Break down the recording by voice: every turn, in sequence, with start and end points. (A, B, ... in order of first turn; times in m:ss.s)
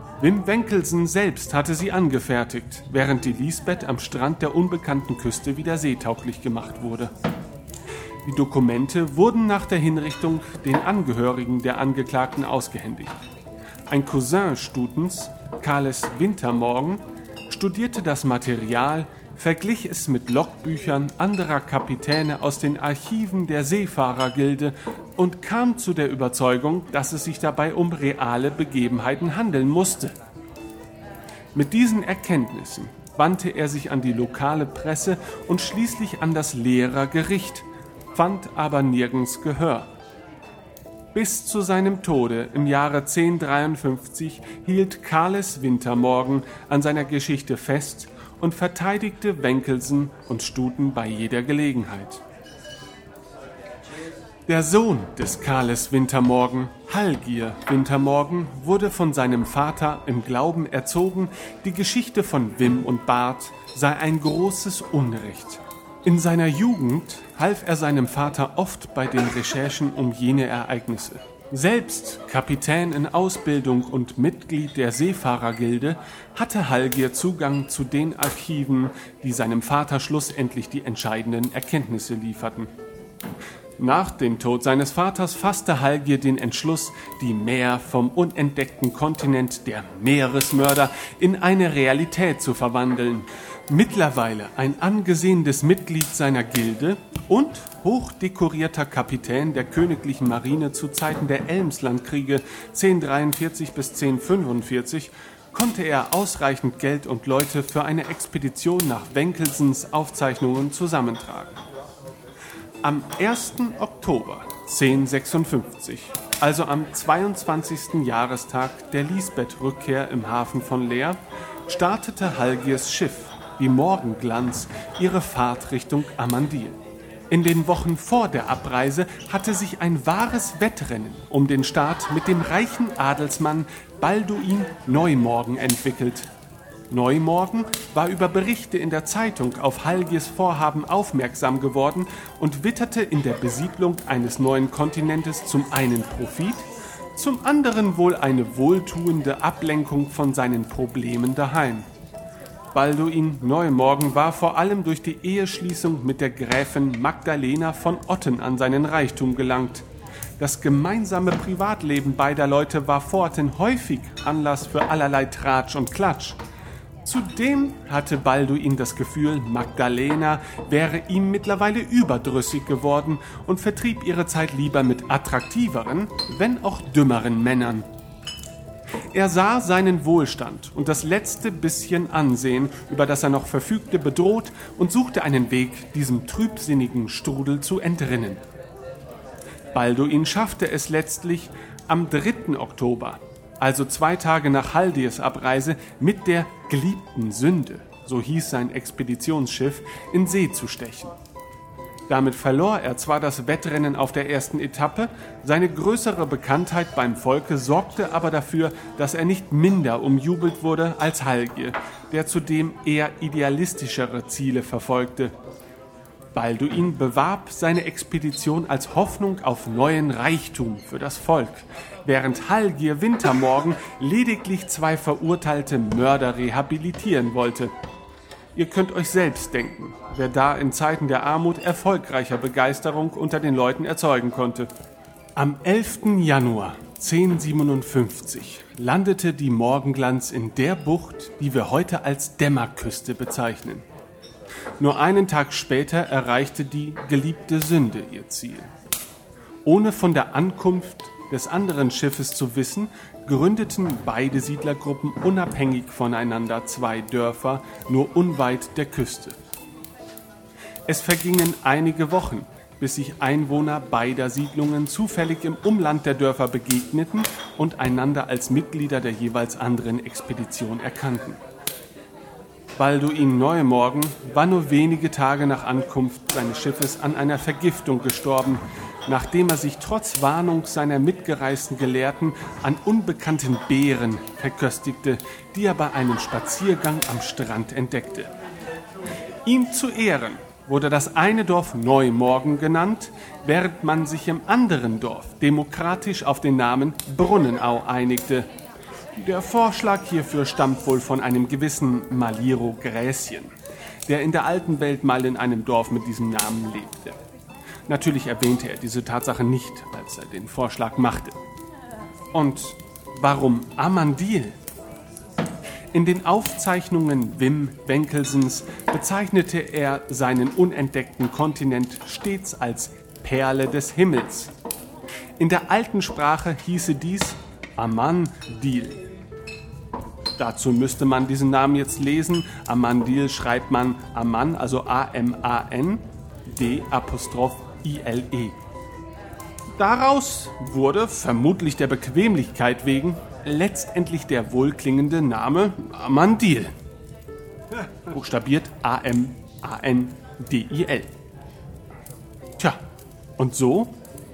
0:00.2-0:07.1 A
0:08.2-0:13.1 A
0:13.9-0:30.1 A
0:31.6-0:37.6 A
0:38.2-0:39.9 A
0:41.1-0:52.2 A
0:54.5-1:22.7 A
1:23.8-1:51.5 A
1:52.8-2:06.8 A
2:07.3-2:16.3 A
2:16.9-2:26.6 A
2:27.2-2:31.8 A
2:32.7-2:39.8 A
2:40.4-2:46.4 A
2:47.0-2:57.8 A
2:59.1-3:08.4 A
3:09.7-3:21.1 A
3:22.1-3:35.3 A
3:36.3-3:47.7 A
3:48.6-3:54.7 A
3:55.4-4:03.8 A
4:04.8-4:08.7 A
4:09.6-4:19.3 A
4:20.9-4:31.4 A
4:32.8-4:48.3 A
4:49.4-4:58.4 A
4:59.2-5:03.5 A
5:04.1-5:07.2 A
5:07.9-5:11.3 A
5:12.3-5:14.5 A
5:15.9-5:24.5 A
5:25.4-5:29.0 A
5:30.4-5:38.5 A
5:39.8-5:46.7 A
5:48.1-5:51.1 A
5:53.4-5:53.9 A